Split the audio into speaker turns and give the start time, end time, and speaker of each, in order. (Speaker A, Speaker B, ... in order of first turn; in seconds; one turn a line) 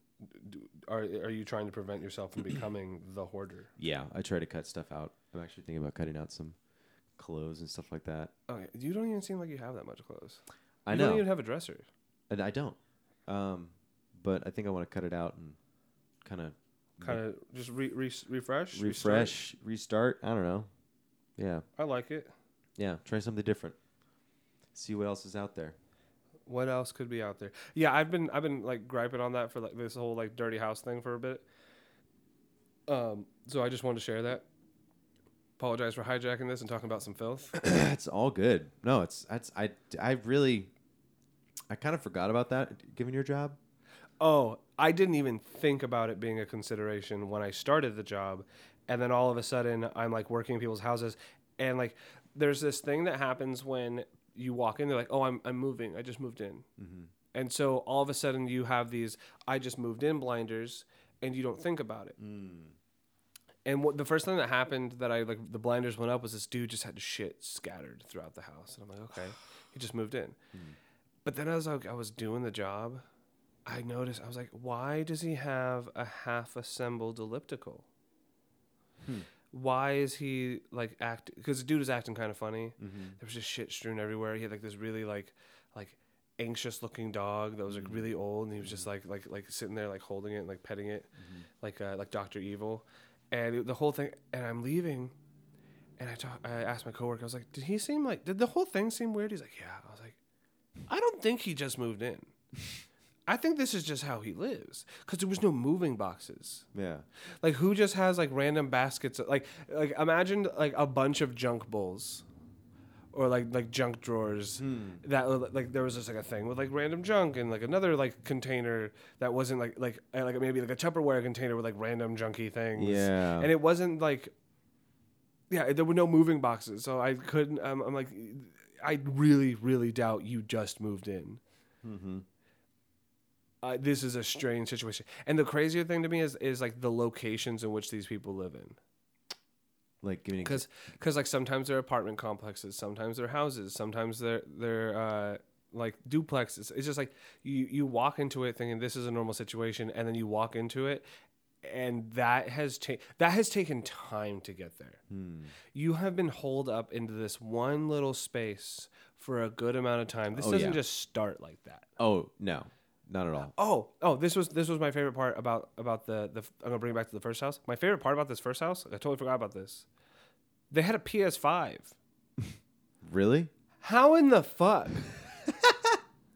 Speaker A: 0.2-3.7
Speaker B: 3.8-6.5
Speaker B: 7.2-8.3
Speaker A: 8.5-11.9
Speaker B: 10.8-11.2
Speaker B: 12.3-15.6
Speaker B: 16.2-17.2
Speaker A: 17.0-19.3
Speaker B: 18.7-20.7
Speaker B: 21.4-21.6
Speaker A: 21.8-22.3
Speaker B: 22.8-23.8
Speaker B: 24.7-25.8
Speaker A: 26.4-31.4
Speaker A: 32.9-34.4
Speaker A: 35.6-37.5
Speaker B: 37.5-40.7
Speaker B: 41.7-43.6
Speaker A: 44.2-56.6
Speaker B: 56.8-57.1
Speaker A: 57.3-62.2
Speaker B: 62.2-62.7
Speaker A: 63.6-70.4
Speaker A: 71.2-73.0
Speaker A: 73.7-77.8
Speaker B: 79.0-79.3
Speaker A: 79.5-91.1
Speaker B: 82.8-83.2
Speaker B: 87.7-88.1
Speaker B: 88.6-88.8
Speaker B: 91.2-91.4
Speaker A: 91.6-95.1
Speaker A: 96.0-100.2
Speaker A: 100.9-102.3
Speaker A: 103.3-106.7
Speaker B: 106.7-107.0
Speaker A: 107.4-112.2
Speaker A: 113.1-124.3
Speaker B: 114.6-115.0
Speaker B: 122.8-123.5
Speaker A: 125.5-131.4
Speaker B: 131.8-132.2
Speaker A: 133.6-138.8
Speaker B: 140.0-140.6
Speaker A: 140.4-151.0
Speaker A: 151.6-155.0
Speaker B: 155.1-155.5
Speaker A: 155.7-161.9
Speaker B: 160.3-160.8
Speaker B: 162.0-163.5
Speaker A: 163.5-169.8
Speaker A: 170.7-171.9
Speaker B: 173.0-173.5
Speaker A: 173.8-175.1
Speaker B: 175.5-175.9